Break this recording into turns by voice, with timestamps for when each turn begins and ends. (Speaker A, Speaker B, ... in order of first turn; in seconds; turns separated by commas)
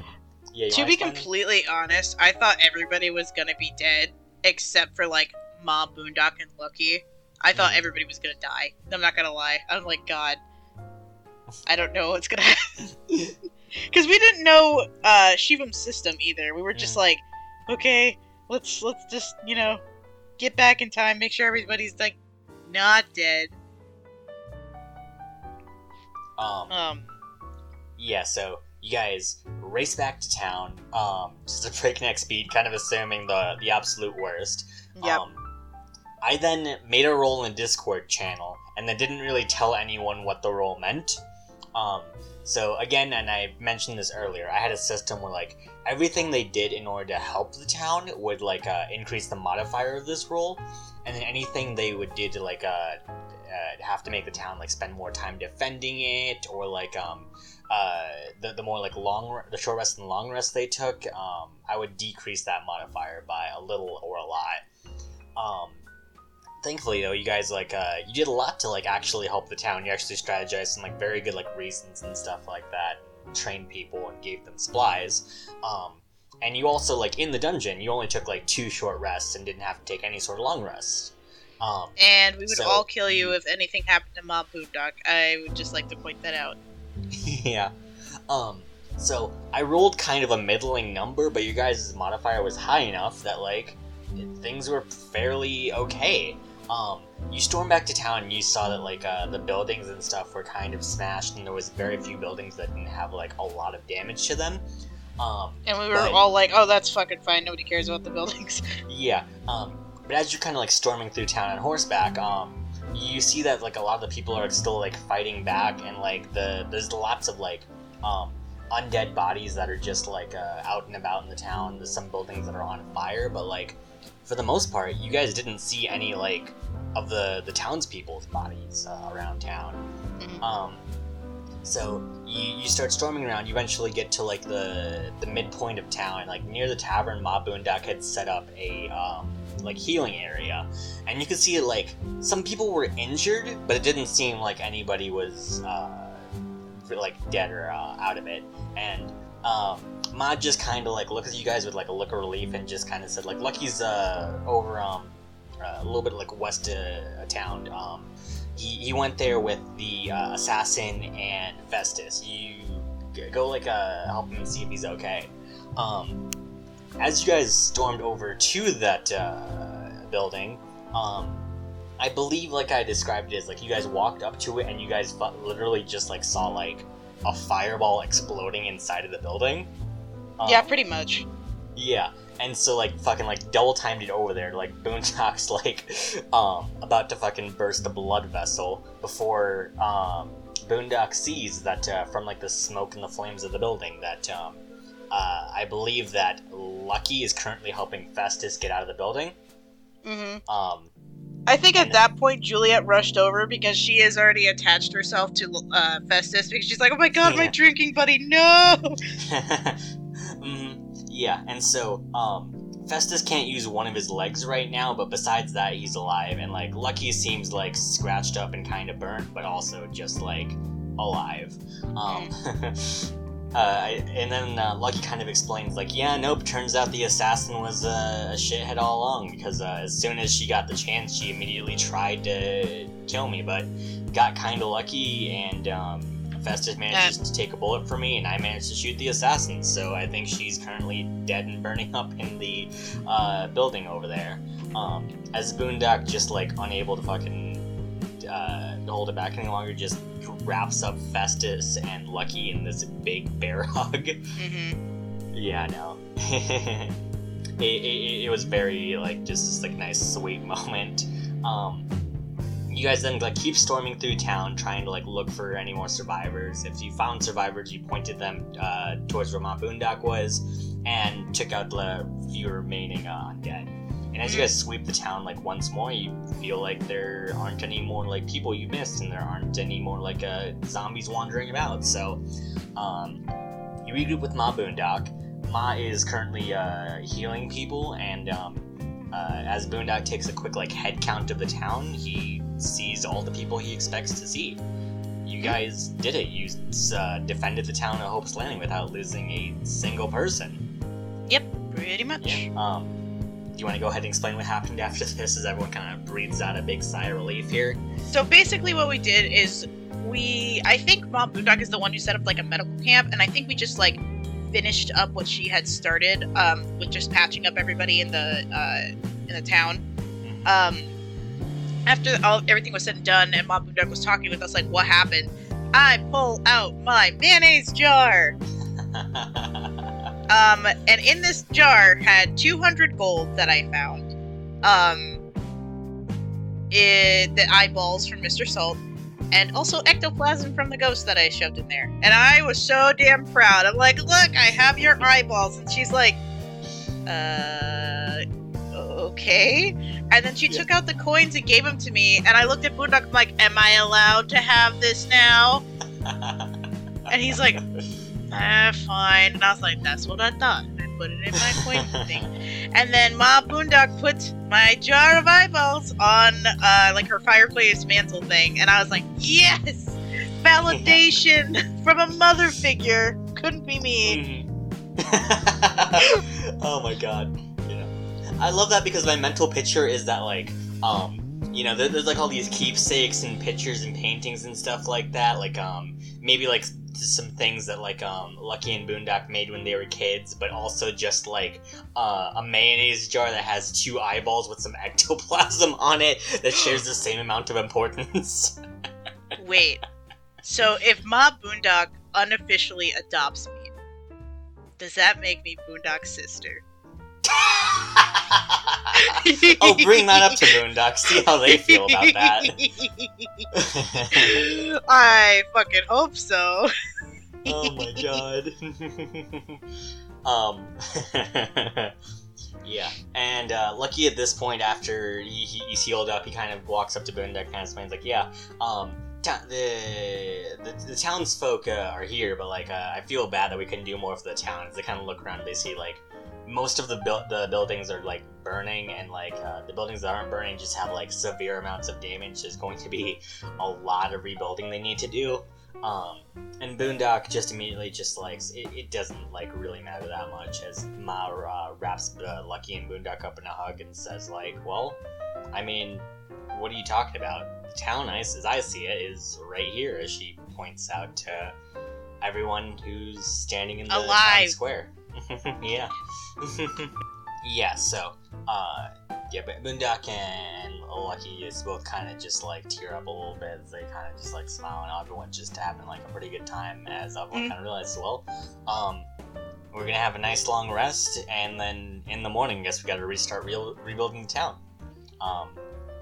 Speaker A: 0.5-1.3, Speaker B: 0.7-10.4, Speaker A: 7.5-7.8, Speaker B: 11.7-12.6, Speaker A: 13.1-13.3, Speaker B: 13.9-19.8, Speaker A: 16.7-17.0, Speaker B: 20.4-22.1, Speaker B: 22.7-23.5, Speaker A: 26.4-26.7, Speaker B: 26.7-27.1, Speaker A: 28.0-35.4, Speaker B: 35.0-35.2, Speaker A: 36.2-41.2, Speaker A: 41.7-64.6, Speaker A: 65.3-65.8, Speaker A: 66.6-83.3, Speaker B: 82.0-86.6, Speaker A: 87.1-87.7, Speaker A: 88.3-104.6, Speaker A: 105.2-106.2, Speaker B: 105.7-108.8, Speaker A: 108.9-129.8, Speaker A: 130.4-130.8, Speaker A: 131.6-146.2, Speaker A: 146.8-166.2, Speaker A: 167.0-171.4, Speaker A: 172.0-179.7, Speaker A: 180.4-180.7, Speaker B: 180.4-181.2, Speaker A: 181.8-194.6, Speaker A: 195.1-199.3, Speaker B: 200.0-200.4, Speaker A: 200.5-200.9, Speaker B: 201.5-208.9, Speaker A: 201.8-202.0, Speaker A: 207.2-207.5, Speaker A: 209.2-209.8, Speaker A: 210.4-247.7, Speaker A: 248.2-254.2, Speaker B: 254.4-254.8, Speaker A: 255.3-256.9, Speaker A: 257.6-261.9, Speaker A: 262.7-282.2, Speaker B: 274.2-274.5, Speaker A: 282.8-283.2, Speaker A: 283.8-294.6, Speaker A: 295.2-300.6, Speaker B: 301.3-302.5, Speaker A: 302.2-303.0, Speaker A: 303.5-307.8, Speaker B: 308.1-314.0, Speaker B: 314.5-319.8, Speaker A: 320.2-320.5, Speaker B: 320.4-320.9, Speaker B: 321.9-328.4, Speaker A: 328.8-329.9, Speaker B: 330.3-335.2, Speaker B: 336.7-338.8, Speaker B: 339.3-346.2, Speaker A: 344.8-345.1, Speaker B: 347.1-348.2, Speaker B: 348.7-355.6, Speaker A: 356.0-356.5, Speaker B: 357.1-357.6, Speaker A: 357.3-357.8, Speaker B: 358.3-374.2, Speaker A: 361.6-362.2, Speaker A: 370.7-371.0, Speaker A: 374.0-398.6, Speaker B: 399.4-399.8, Speaker B: 400.4-403.7, Speaker B: 404.8-406.6, Speaker A: 407.2-412.6, Speaker B: 408.9-410.4, Speaker B: 411.5-413.5, Speaker A: 413.5-414.4, Speaker B: 414.1-416.7, Speaker B: 417.4-418.2, Speaker A: 417.5-419.6, Speaker A: 420.2-421.9, Speaker A: 422.6-455.0, Speaker A: 455.5-461.6, Speaker A: 462.2-479.1, Speaker B: 463.9-464.5, Speaker A: 479.7-484.6, Speaker A: 485.2-485.6